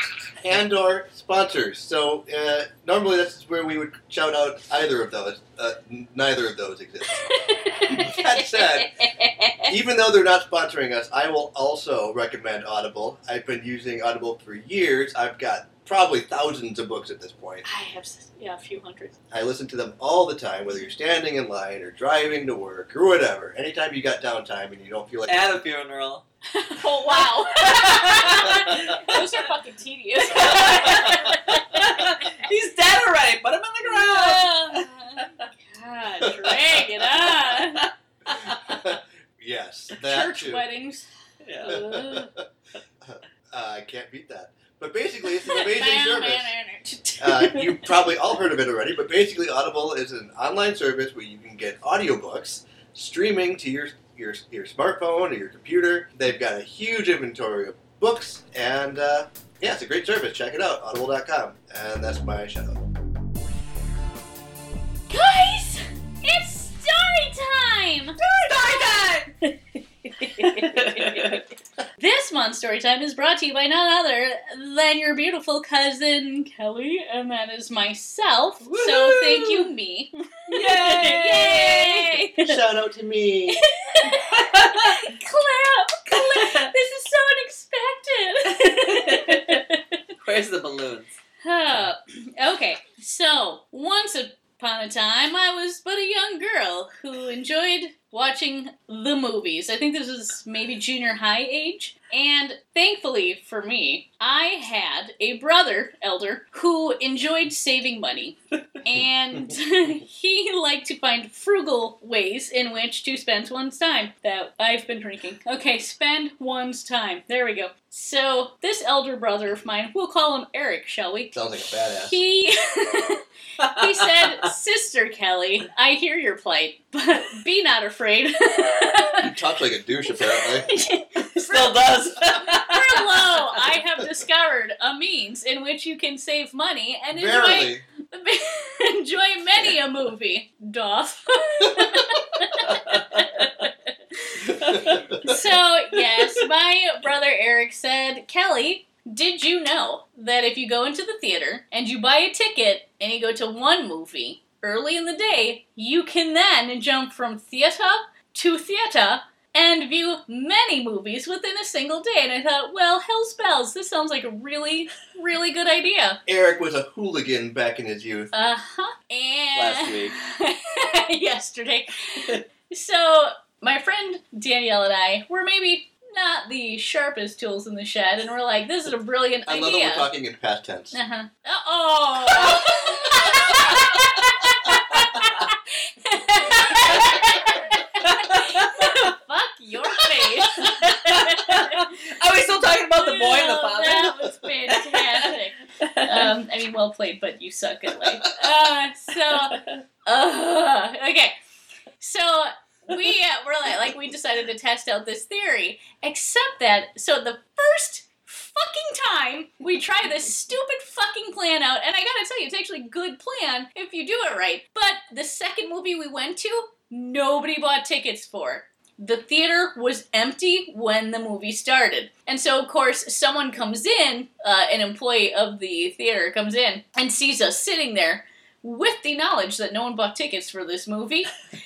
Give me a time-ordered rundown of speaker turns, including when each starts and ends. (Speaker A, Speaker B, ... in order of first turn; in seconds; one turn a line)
Speaker A: 0.4-9.1
Speaker B: 7.1-9.7
Speaker A: 9.6-17.6
Speaker B: 17.6-19.1
Speaker A: 19.3-25.6
Speaker C: 25.3-26.2
Speaker B: 26.5-32.5
Speaker C: 26.8-29.2
Speaker C: 30.3-35.4
Speaker B: 33.8-37.9
Speaker A: 36.2-36.5
Speaker C: 37.2-38.8
Speaker A: 38.3-40.6
Speaker B: 40.0-41.1
Speaker C: 41.4-41.8
Speaker B: 41.6-42.3
Speaker A: 41.6-42.4
Speaker A: 43.0-46.5
Speaker B: 45.4-47.9
Speaker A: 47.2-62.8
Speaker B: 65.1-71.4
Speaker C: 68.2-69.3
Speaker C: 70.4-71.4
Speaker B: 72.0-82.6
Speaker C: 78.7-79.7
Speaker C: 80.5-82.2
Speaker A: 82.4-83.6
Speaker B: 83.5-89.8
Speaker C: 84.3-85.0
Speaker C: 86.1-86.7
Speaker C: 88.6-89.6
Speaker C: 90.2-91.1
Speaker B: 91.4-129.3
Speaker A: 121.3-122.2
Speaker C: 123.6-124.5
Speaker A: 129.2-130.7
Speaker B: 130.1-144.5
Speaker C: 131.2-133.6
Speaker A: 137.1-137.8
Speaker C: 142.6-143.5
Speaker A: 144.4-145.4
Speaker C: 144.6-145.2
Speaker B: 145.2-166.2
Speaker A: 166.3-168.3
Speaker B: 168.3-180.1
Speaker C: 169.5-170.1
Speaker A: 179.4-181.0
Speaker B: 180.9-191.9
Speaker C: 182.4-184.1
Speaker C: 184.7-185.3
Speaker C: 186.7-189.1
Speaker C: 190.5-196.3
Speaker B: 192.8-201.3
Speaker C: 199.3-199.8
Speaker B: 202.0-231.3